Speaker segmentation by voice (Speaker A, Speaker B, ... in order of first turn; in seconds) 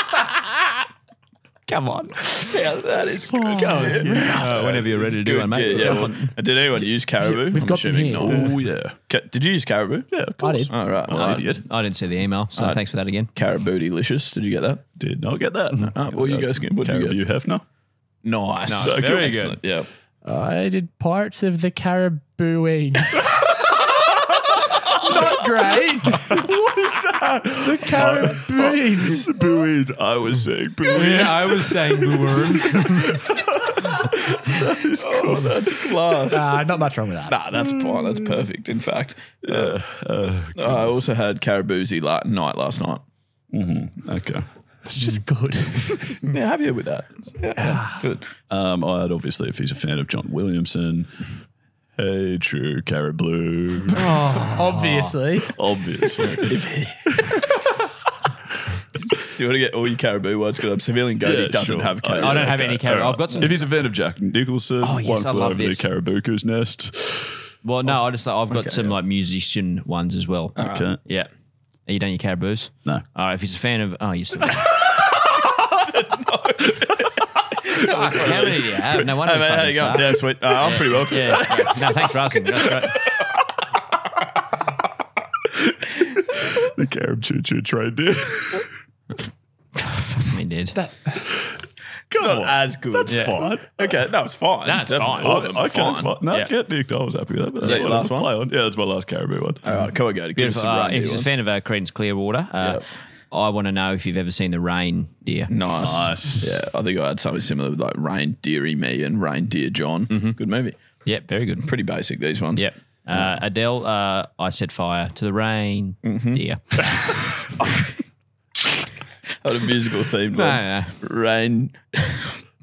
Speaker A: 1.7-2.5, 4.4-6.4, 11.2-13.3, 18.7-19.6, 30.9-33.2, 54.0-55.1, 62.2-63.7, 64.8-65.8, 67.6-71.3, 71.9-74.7, 77.8-83.0, 90.2-90.8, 93.1-93.4, 94.6-95.4, 100.4-105.5, 110.1-110.4, 111.0-111.7, 112.6-116.6, 120.3-121.0
Speaker B: 2.5-11.6, 12.6-12.8, 13.3-14.8, 15.9-17.2, 18.2-19.9, 35.0-36.7, 37.3-39.8, 40.6-43.0, 46.3-48.3, 56.3-57.3, 59.3-62.7, 68.5-69.0, 70.6-70.9, 75.8-81.8, 92.1-96.2, 97.6-98.3, 99.6-101.3, 105.5-110.8, 111.6-113.3, 116.0-116.4, 119.4-122.4
Speaker C: 3.3-4.8, 8.2-9.0, 10.1-11.6, 15.0-17.6, 18.8-19.3, 26.1-36.1, 37.5-38.4, 39.4-41.0, 43.5-44.5, 48.5-51.1, 52.0-54.2, 55.5-56.5, 61.2-67.4, 70.6-71.0, 86.6-88.7, 92.1-93.9, 95.2-99.6, 105.8-106.5
Speaker D: 3.7-4.4, 7.2-8.5, 10.4-10.7, 20.2-23.3, 24.9-26.5, 27.6-29.3, 36.3-37.4, 44.9-46.2, 47.6-48.0, 54.1-55.5, 90.8-91.1